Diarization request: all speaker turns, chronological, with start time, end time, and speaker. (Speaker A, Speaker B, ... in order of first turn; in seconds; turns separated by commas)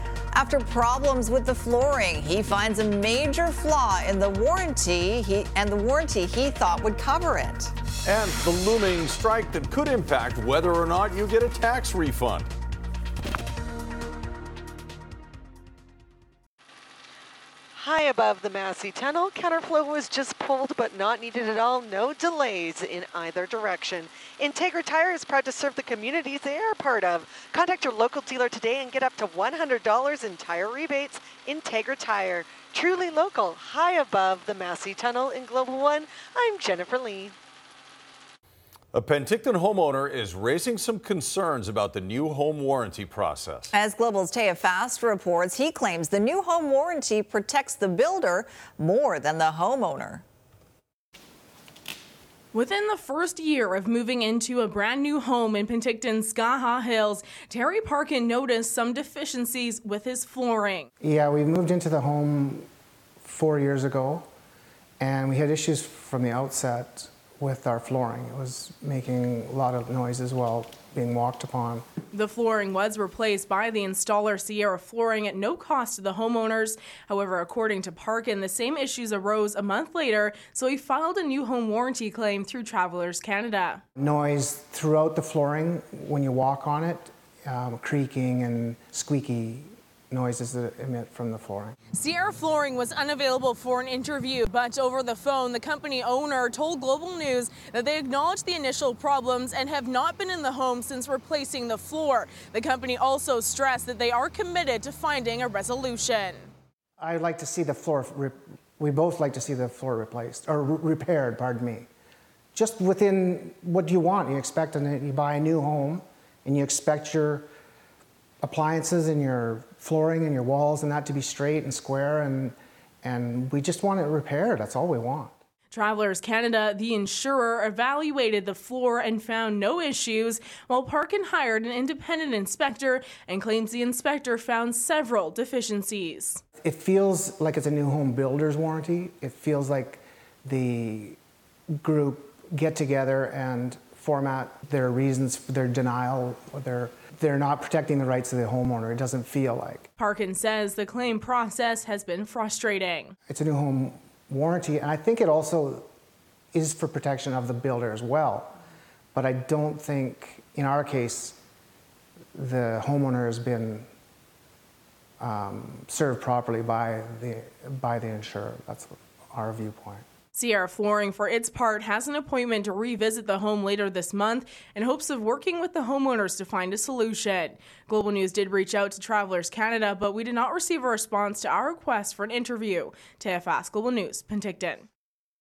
Speaker A: 0.3-7.7, Speaker B: 8.0-12.5, Speaker C: 17.8-37.3, Speaker B: 38.9-43.7, Speaker A: 43.7-50.2, Speaker D: 52.5-60.9, Speaker E: 61.0-62.7, Speaker E: 63.2-64.3, Speaker E: 65.0-71.8, Speaker D: 72.1-83.8, Speaker E: 84.0-91.8, Speaker D: 91.9-106.5, Speaker E: 107.0-111.9, Speaker E: 112.5-117.5, Speaker E: 118.4-125.3, Speaker D: 125.7-136.4, Speaker E: 136.6-141.2, Speaker E: 141.8-149.9, Speaker D: 150.0-153.1, Speaker E: 153.3-155.9, Speaker E: 156.5-158.6, Speaker E: 159.1-161.4, Speaker E: 162.3-163.9, Speaker E: 165.2-170.0, Speaker D: 170.3-184.8